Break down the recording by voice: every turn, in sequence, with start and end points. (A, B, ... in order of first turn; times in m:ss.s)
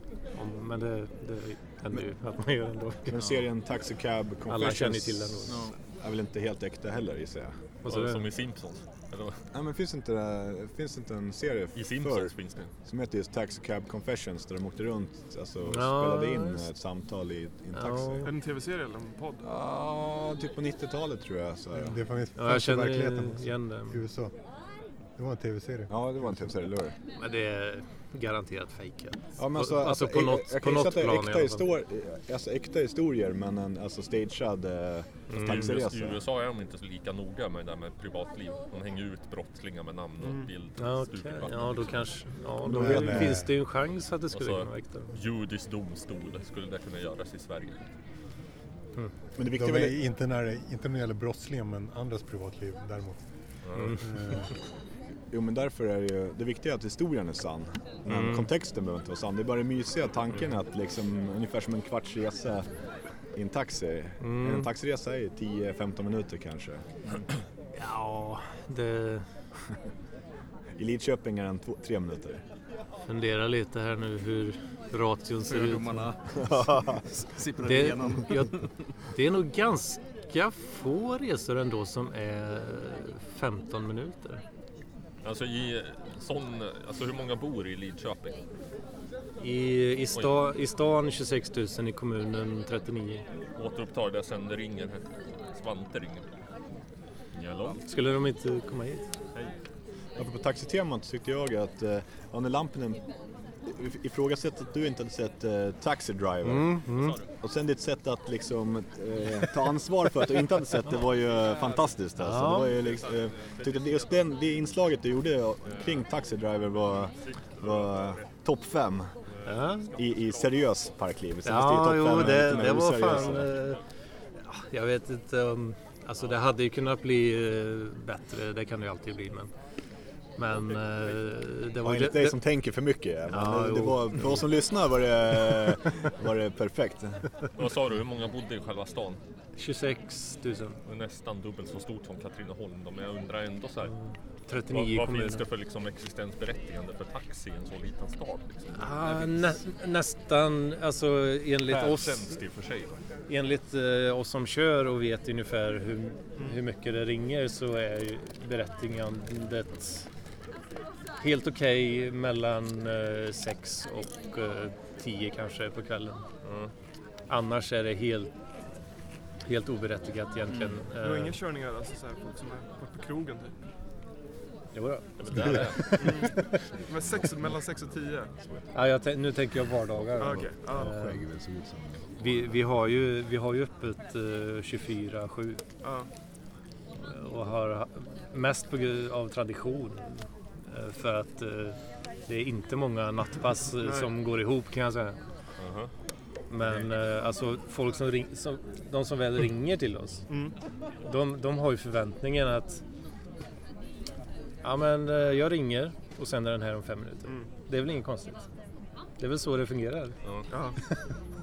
0:00.4-0:03.2 A
0:03.1-0:07.6 B
0:04.5-0:05.6 A
0:05.5-0:05.7 C
0:07.8-0:08.2 A
0:07.9-0:09.4 D
0:09.5-0:12.3 B
0:11.7-0:12.7 D
0:12.8-0:18.3 B
0:15.6-0:16.7 A
0:17.8-0:18.3 A
0:18.2-0:19.5 E
0:19.4-0:22.0 B
0:21.8-0:24.3 F
0:22.4-0:24.0 A
0:25.2-0:25.9 F
0:25.9-0:26.9 B
0:27.2-0:31.6 A
0:29.4-0:36.2 B
0:35.3-0:35.7 A
0:35.3-0:42.1 D
0:40.2-0:40.5 E
0:40.8-0:45.1 A
0:42.6-0:43.5 F
0:42.7-0:43.4 B
0:44.3-0:47.9 D
0:49.4-0:50.0 B
0:49.5-0:53.2 F
0:53.6-0:54.0 D
0:54.0-0:54.5 F
0:55.3-1:02.6 B
0:58.1-0:58.5 A
1:03.3-1:06.8 B
1:04.2-1:04.7 A
1:07.8-1:09.2 A
1:10.8-1:12.4 B
1:13.1-1:16.1 A
1:15.5-1:18.6 C
1:17.6-1:24.4 A
1:25.2-1:28.4 D
1:29.4-1:33.2 A
1:33.6-1:36.2 D
1:37.3-1:37.8 D
1:37.8-1:39.0 A
1:40.2-1:43.0 B
1:43.6-1:46.8 B
1:46.4-1:47.2 A
1:47.0-1:47.2 D
1:47.4-1:59.1 B
1:52.2-1:52.7 A
1:52.7-1:54.3 D
1:55.6-1:56.0 D
1:57.1-1:58.3 D
1:59.3-2:00.7 D
1:59.4-1:59.9 A
2:00.0-2:03.5 B
2:01.4-2:03.8 A
2:03.0-2:03.6 D
2:04.4-2:09.5 A
2:10.4-2:12.4 A
2:10.5-2:11.1 D
2:11.8-2:17.2 B
2:13.3-2:14.4 A
2:17.6-2:19.2 D
2:19.6-2:20.8 A
2:20.9-2:23.9 D
2:24.5-2:25.4 A
2:24.7-2:29.0 D
2:28.7-2:32.3 A
2:29.1-2:29.5 C
2:31.7-2:33.0 D
2:33.3-2:40.0 A
2:41.2-2:46.2 A
2:46.4-2:46.7 D
2:47.3-2:48.3 A
2:49.4-2:51.4 A
2:51.0-2:53.5 E
2:54.7-2:56.3 A
2:55.2-2:56.2 D
2:55.9-2:56.4 E
2:56.9-2:58.3 E
2:58.7-3:01.2 A
3:00.2-3:00.9 E
3:00.7-3:01.9 B
3:02.2-3:05.6 A
3:05.8-3:06.1 E
3:07.0-3:15.2 A
3:13.8-3:14.1 E
3:15.6-3:15.9 D
3:16.5-3:20.2 A
3:20.3-3:20.5 E
3:21.0-3:22.8 A
3:24.6-3:28.4 A
3:29.2-3:30.2 A
3:30.5-3:30.8 E